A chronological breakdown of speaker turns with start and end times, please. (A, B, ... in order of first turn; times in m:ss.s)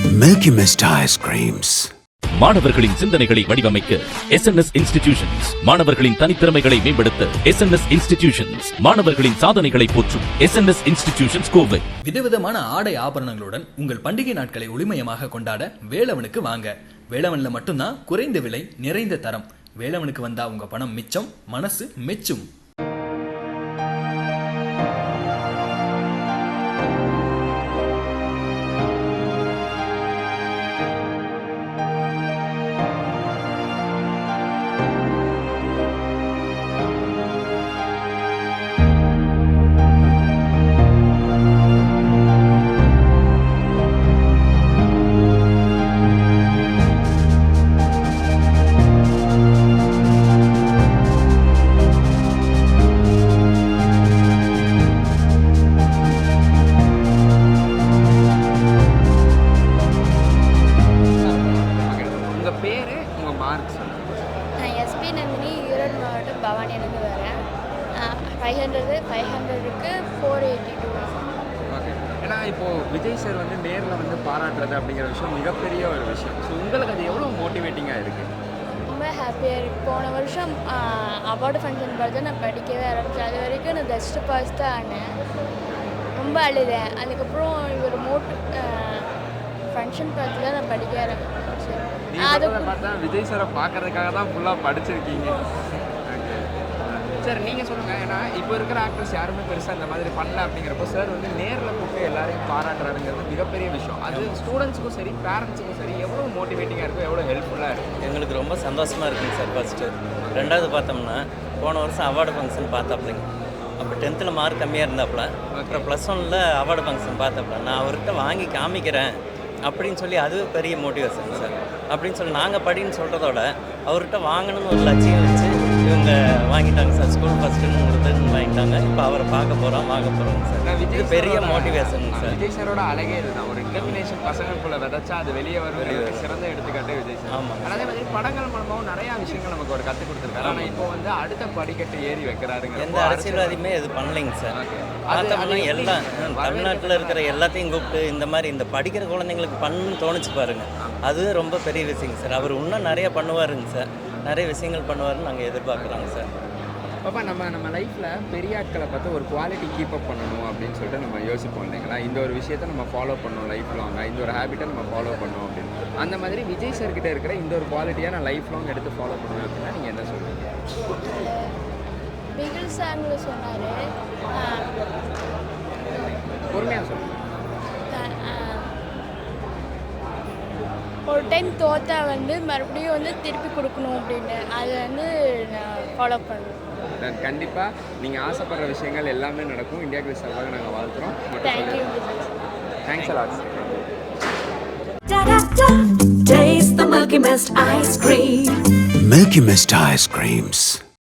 0:00.1-0:01.9 A
0:02.4-0:11.8 B
0:12.0-0:22.4 C
1:01.7-1:04.2 D
1:04.6-1:07.4 E
1:08.0-1:11.2 E
1:11.7-1:18.3 D
1:18.9-1:25.0 E
1:26.1-1:29.1 E
1:29.7-1:32.7 E
1:32.1-1:35.4 D
1:36.1-1:47.9 D
1:48.0-1:53.2 F
1:50.3-1:50.6 D
1:53.8-1:59.1 F
1:55.5-1:55.9 D
1:59.7-2:12.4 F
2:10.6-2:23.6 D
2:15.8-2:16.3 F
2:17.3-2:17.8 F
2:20.4-2:20.8 F
2:22.8-2:24.5 F
2:24.5-2:27.3 D
2:25.1-2:36.3 F
2:35.7-2:36.1 D
2:37.0-2:50.5 D
2:51.0-2:51.5 E
2:52.3-2:53.8 E
2:54.3-2:54.7 E
2:56.5-2:57.1 D
2:57.9-2:58.7 E
3:01.1-3:06.6 E
3:07.0-3:11.9 D
3:11.4-3:12.3 E
3:12.8-3:13.6 D
3:15.1-3:18.8 G
3:19.0-3:20.8 A